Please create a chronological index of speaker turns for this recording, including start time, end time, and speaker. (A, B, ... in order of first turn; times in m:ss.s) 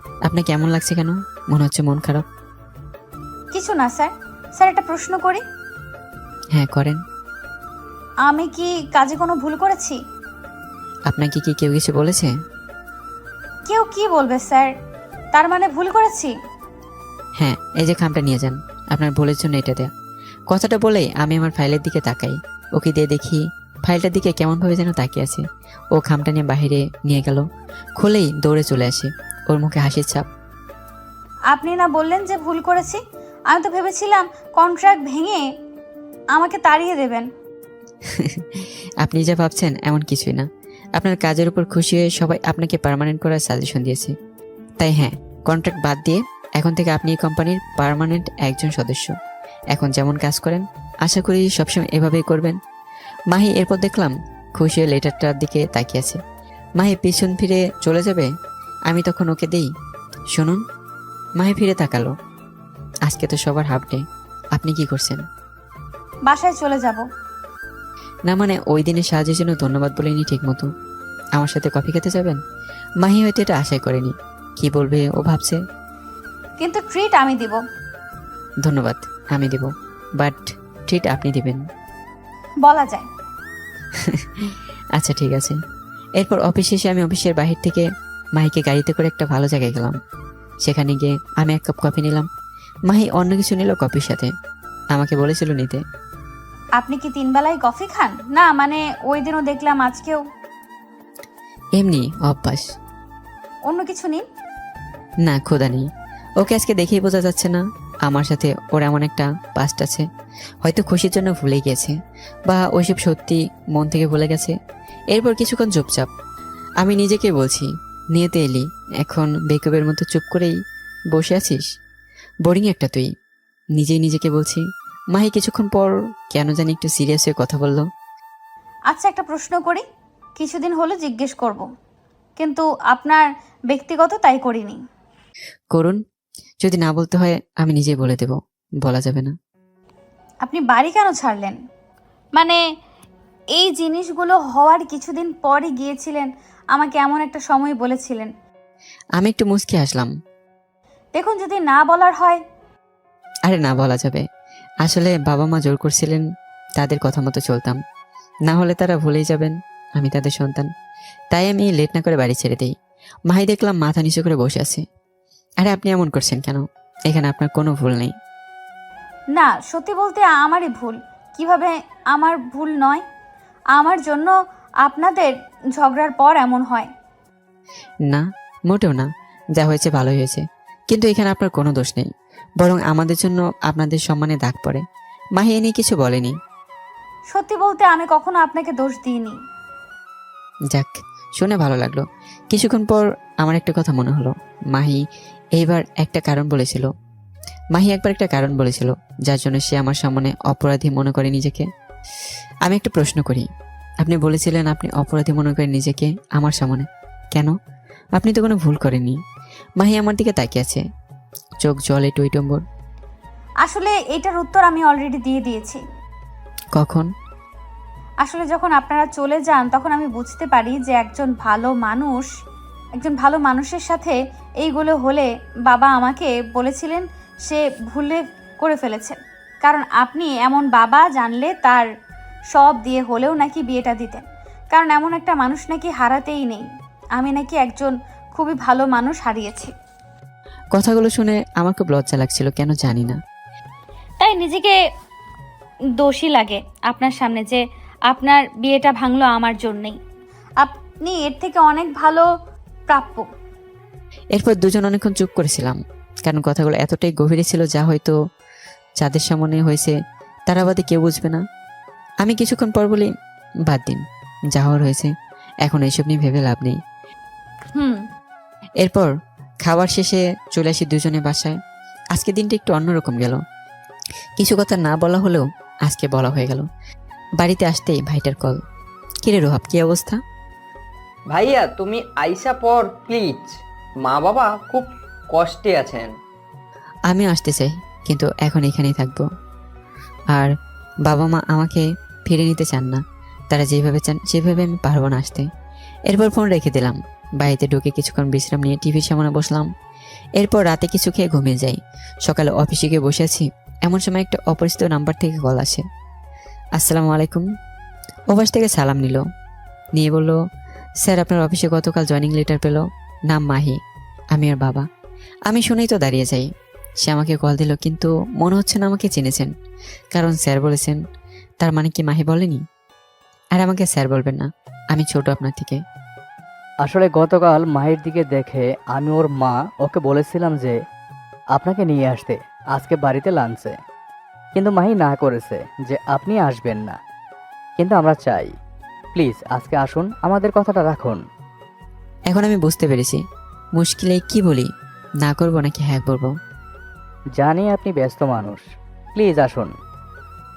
0:00.3-0:02.2 A
0:03.5-0:05.4 B
0:06.5-0:07.0 A
0:08.2-0:10.0 B
0:11.1-0:12.3 A
0:13.7-0:14.7 B
0:15.3-0:16.3 B
0:17.4-0:19.9 A
0:20.5-0:25.4 A
0:25.9-0:27.4 A
0:28.0-0:30.2 A
0:31.5-0:33.0 B
0:33.5-0:35.4 B
0:36.3-0:37.2 B
0:38.1-0:44.1 A
0:44.8-0:49.1 A
0:49.7-0:52.6 A
0:53.3-0:56.2 A
0:56.8-0:58.3 A
0:58.9-0:59.6 A
1:00.3-1:00.6 A
1:01.4-1:02.1 A
1:03.0-1:04.0 A
1:04.6-1:05.2 A
1:06.3-1:07.0 B
1:08.3-1:10.7 A
1:11.4-1:12.4 A
1:13.0-1:15.6 A
1:16.6-1:17.6 B
1:18.6-1:21.6 A
1:22.6-1:23.0 B
1:24.0-1:25.6 A
1:26.2-1:27.8 A
1:28.4-1:30.0 A
1:30.6-1:32.3 A
1:32.9-1:34.3 A
1:34.9-1:35.8 A
1:36.8-1:40.2 B
1:41.8-1:42.6 A
1:43.7-1:44.2 B
1:45.2-1:45.9 A
1:46.4-1:50.1 A
1:50.6-1:51.9 A
1:52.4-1:54.5 A
1:55.1-1:56.1 A
1:56.8-2:00.5 A
2:01.1-2:01.6 A
2:02.4-2:03.1 A
2:03.8-2:04.6 A
2:05.1-2:07.8 A
2:08.9-2:09.8 B
2:10.4-2:11.6 B
2:12.4-2:14.8 B
2:15.7-2:16.0 A
2:16.6-2:19.3 A
2:20.4-2:21.6 B
2:23.6-2:28.3 B
2:29.2-2:30.1 A
2:31.2-2:32.4 B
2:33.5-2:34.2 A
2:34.8-2:36.2 A
2:36.8-2:37.8 A
2:38.5-2:40.7 A
2:41.3-2:42.7 A
2:43.3-2:44.8 A
2:45.6-2:48.1 A
2:49.3-2:53.0 B
2:53.7-2:54.3 B
2:54.8-2:56.9 B
2:58.0-3:02.1 A
3:02.6-3:04.8 A
3:05.4-3:06.3 A
3:07.3-3:09.4 B
3:10.7-3:15.0 A
3:15.6-3:16.9 A
3:17.7-3:21.6 A
3:22.6-3:23.5 A
3:24.0-3:27.5 A
3:28.2-3:29.2 A
3:29.8-3:30.8 A
3:31.6-3:32.6 A
3:33.6-3:35.8 B
3:36.8-3:37.1 A
3:38.2-3:42.3 B
3:43.0-3:51.8 B
3:52.5-3:56.6 B
3:57.2-3:59.7 B
4:00.7-4:03.2 A
4:04.2-4:04.8 B
4:06.0-4:10.0 B
4:10.6-4:12.2 B
4:12.9-4:13.2 B
4:14.4-4:18.1 A
4:19.0-4:20.0 A
4:20.5-4:21.4 A
4:22.2-4:23.1 A
4:23.7-4:24.0 A
4:24.5-4:25.1 A
4:25.6-4:26.8 A
4:27.7-4:28.0 B
4:28.8-4:29.1 A
4:29.6-4:31.6 A
4:32.1-4:33.4 A
4:34.4-4:36.6 A
4:37.4-4:38.6 A
4:39.2-4:40.2 A
4:41.3-4:46.1 C
4:47.1-4:49.2 A
4:51.0-4:55.5 A
4:56.1-4:59.7 A
5:00.4-5:05.8 A
5:06.8-5:07.4 A
5:08.3-5:09.2 A
5:10.0-5:10.4 A
5:11.0-5:13.8 A
5:14.3-5:14.9 A
5:15.5-5:16.5 A
5:17.0-5:19.5 A
5:20.1-5:21.0 A
5:21.6-5:22.6 A
5:23.6-5:25.8 A
5:26.8-5:30.8 D
5:31.5-5:33.8 D
5:34.5-5:37.0 D
5:37.8-5:38.5 D
5:39.1-5:41.2 D
5:42.3-5:43.2 A
5:43.8-5:44.7 A
5:45.2-5:46.3 A
5:47.4-5:49.7 D